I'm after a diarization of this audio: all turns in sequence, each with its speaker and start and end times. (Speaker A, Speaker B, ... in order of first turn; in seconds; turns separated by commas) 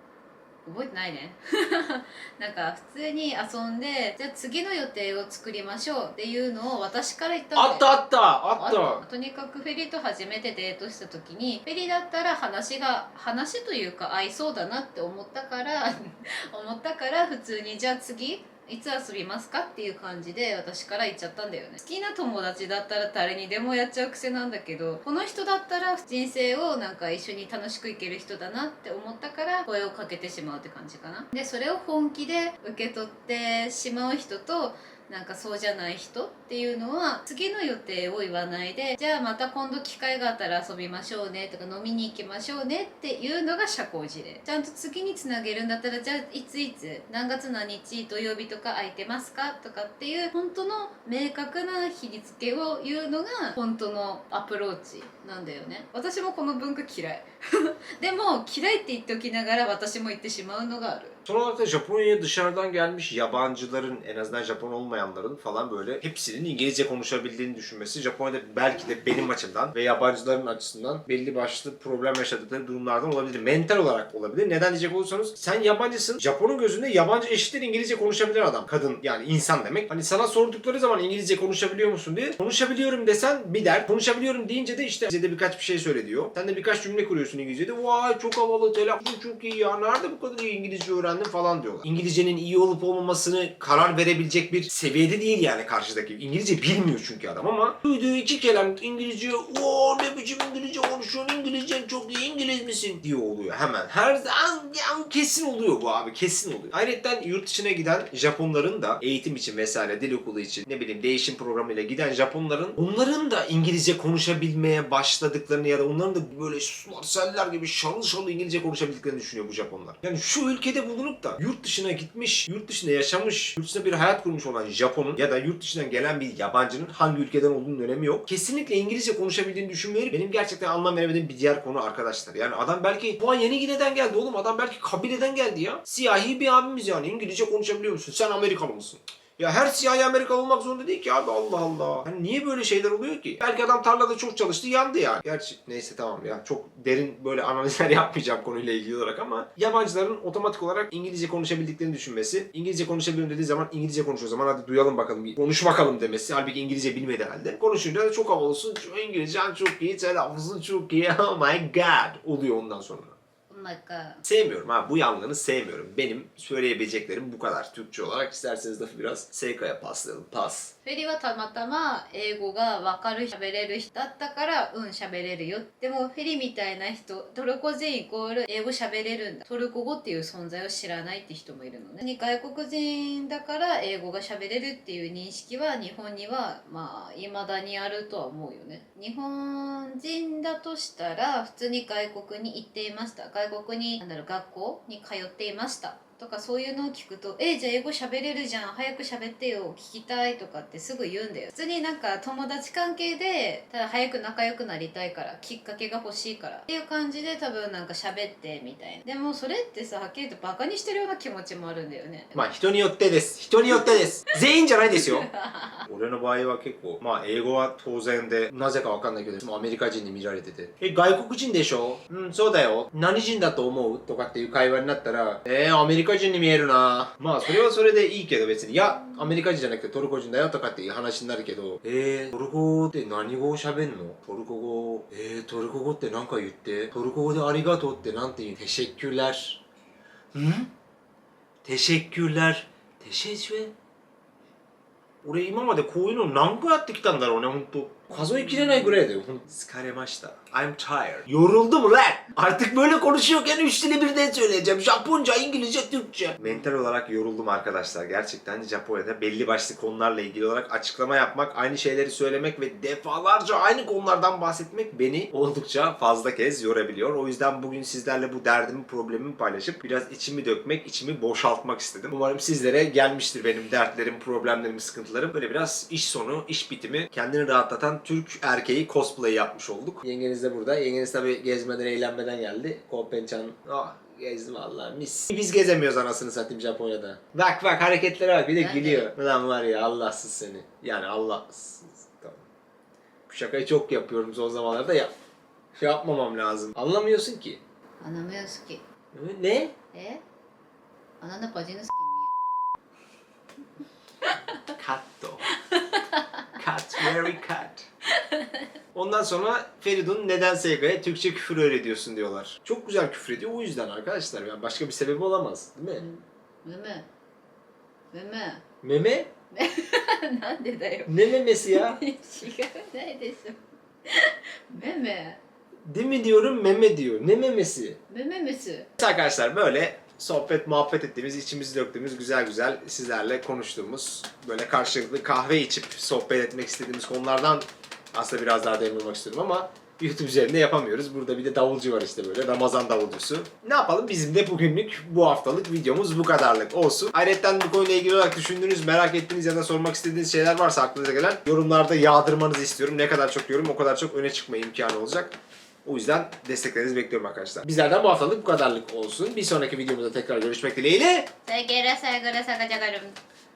Speaker A: 0.7-7.9, Speaker B: 7.6-9.0, Speaker A: 8.6-61.2, Speaker B: 61.3-163.2, Speaker A: 163.5-164.2, Speaker B: 164.2-170.7, Speaker A: 170.8-212.5, Speaker B: 212.3-215.3, Speaker A: 214.9-215.8, Speaker B: 215.8-239.6, Speaker B: 240.3-240.7, Speaker B: 241.6-243.7, Speaker B: 245.2-292.4, Speaker A: 288.6-289.1, Speaker B: 293.3-295.1, Speaker B: 295.8-297.6, Speaker A: 298.0-298.8, Speaker B: 299.1-299.8, Speaker A: 299.9-300.2, Speaker A: 301.2-302.3, Speaker A: 304.2-304.6, Speaker B: 304.8-305.5, Speaker A: 305.5-307.3, Speaker B: 306.6-307.9, Speaker A: 308.1-308.7, Speaker B: 308.9-316.1, Speaker A: 316.0-317.1, Speaker A: 318.1-318.6, Speaker B: 318.8-319.3, Speaker A: 319.5-325.4, Speaker B: 321.1-322.0, Speaker B: 325.9-328.0, Speaker A: 328.1-328.9, Speaker B: 329.0-355.3, Speaker B: 355.9-361.3, Speaker A: 361.4-363.2